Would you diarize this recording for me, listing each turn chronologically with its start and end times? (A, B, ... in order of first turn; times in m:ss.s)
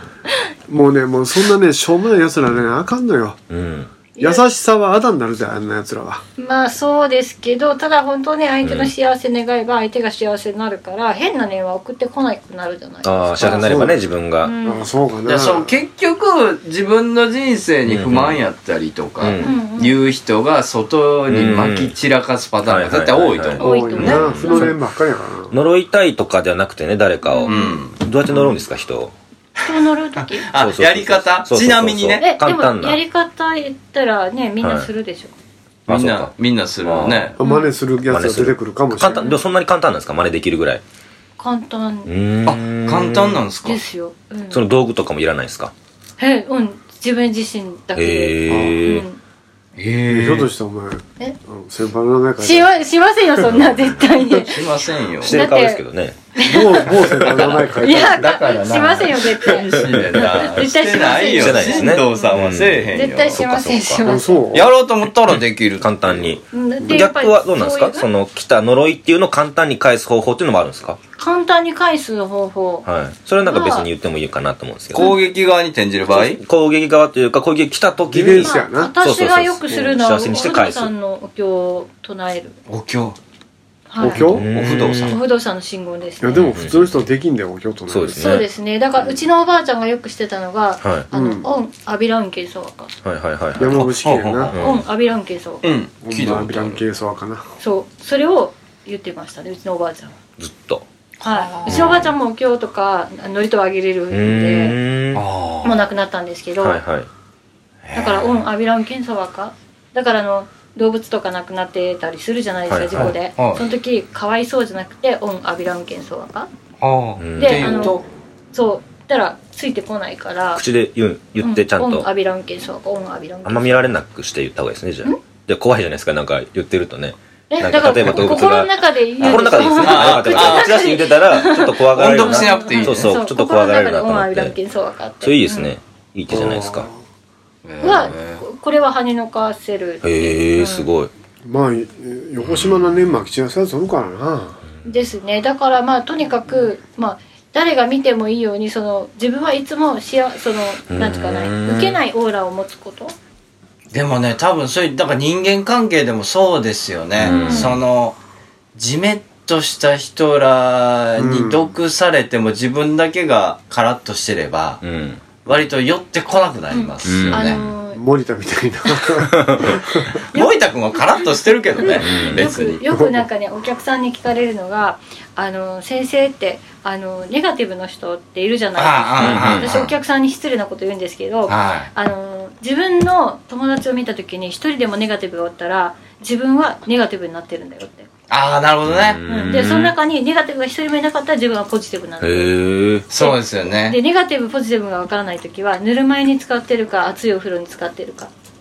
0:00.7-0:03.4 A
0:03.5-0:03.9 B
0:04.1-0:04.4 C
0:04.2-0:06.2 A
0:06.4-0:13.9 C
0:08.6-0:08.9 B
0:13.0-0:14.5 B
0:13.4-0:14.0 A
0:14.4-0:14.8 C
0:14.6-0:15.7 A
0:15.2-0:24.2 D
0:17.8-0:18.4 B
0:19.2-0:19.5 B
0:19.4-0:20.0 C
0:21.3-0:21.9 B
0:22.6-0:24.7 B
0:23.6-0:24.7 C
0:23.6-0:25.6 A
0:25.5-0:29.1 B
0:27.2-0:27.8 C
0:27.4-0:28.0 D
0:29.6-0:30.5 C
0:30.2-0:32.3 D
0:30.5-0:33.0 B
0:32.2-0:35.3 C
0:34.6-0:34.9 B
0:35.9-0:36.3 B
0:35.9-0:37.3 D
0:36.8-0:37.3 B
0:37.4-0:39.3 A
0:37.4-0:37.7 C
0:38.1-0:40.8 B
0:39.1-0:39.4 C
0:41.4-0:42.1 C
0:42.1-0:43.4 B
0:42.4-0:43.8 D
0:43.6-0:44.7 C
0:44.5-0:45.7 B
0:46.2-0:49.2 C
0:48.0-0:49.0 B
0:48.5-0:48.8 A
0:49.8-0:50.5 D
0:50.1-0:52.7 A
0:52.4-0:54.6 C
0:53.5-0:54.0 B
0:54.4-0:55.4 D
0:55.2-0:56.2 B
0:55.3-0:55.8 C
0:56.3-0:57.3 C
0:56.4-0:58.3 A
0:57.4-1:03.4 D
0:57.8-1:02.3 C
0:59.9-1:00.3 B
1:01.1-1:04.2 B
1:02.9-1:04.4 C
1:04.0-1:04.7 A
1:04.5-1:06.4 D
1:05.3-1:11.0 B
1:06.5-1:08.0 C
1:11.2-1:12.9 C
1:12.8-1:15.1 B
1:13.4-1:13.9 C
1:14.9-1:16.4 D
1:16.1-1:20.9 B
1:18.1-1:18.9 A
1:18.4-1:22.6 C
1:22.7-1:23.2 D
1:23.9-1:24.2 C
1:24.0-1:24.4 A
1:24.1-1:25.2 D
1:24.2-1:25.2 B
1:25.1-1:26.5 C
1:26.2-1:28.3 A
1:26.3-1:27.0 B
1:27.9-1:28.4 B
1:28.1-1:32.9 C
1:31.1-1:31.5 A
1:33.0-1:33.9 B
1:33.6-1:34.5 A
1:34.0-1:34.6 D
1:34.5-1:34.8 B
1:34.6-1:35.6 C
1:35.6-1:36.8 D
1:36.0-1:37.4 A
1:37.6-1:40.1 C
1:40.4-1:40.8 B
1:41.2-1:42.1 D
1:41.2-1:44.8 C
1:41.7-1:42.1 B
1:44.1-1:45.2 B
1:45.1-1:45.8 D
1:45.6-1:46.8 C
1:46.6-1:47.1 B
1:47.8-1:48.4 D
1:47.9-1:56.5 C
1:52.7-1:53.1 B
1:53.0-1:53.6 D
1:56.8-1:58.0 D
1:57.2-1:57.9 B
1:57.4-1:58.0 C
1:58.5-2:00.6 C
2:00.5-2:02.1 B
2:01.4-2:03.9 C
2:03.4-2:14.5 B
2:07.5-2:15.7 C
2:08.0-2:08.4 D
2:09.2-2:10.9 D
2:11.9-2:13.1 D
2:15.2-2:16.9 B
2:16.3-2:17.0 A
2:17.6-2:18.4 D
2:17.8-2:20.9 C
2:20.0-2:21.1 B
2:21.4-2:24.6 A
2:24.8-2:33.1 C
2:30.9-2:32.0 B
2:33.9-2:38.2 D
2:37.2-2:37.8 B
2:37.2-2:37.8 C
2:38.8-2:44.8 D
2:41.2-2:41.7 A
2:44.8-2:45.3 B
2:45.4-2:47.6 D
2:46.7-2:48.0 C
2:47.0-2:47.5 B
2:47.9-2:50.2 A
2:49.3-2:49.7 B
2:50.3-2:52.8 D
2:50.3-3:08.1 C
2:51.9-2:52.4 B
2:52.9-2:53.2 A
2:58.8-2:59.9 D
2:59.2-2:59.8 B
3:01.5-3:01.9 D
3:08.3-3:09.2 D
3:08.9-3:09.9 B
3:09.3-3:12.6 C
3:12.2-3:13.1 B
3:13.1-3:14.0 D
3:13.2-3:18.3 C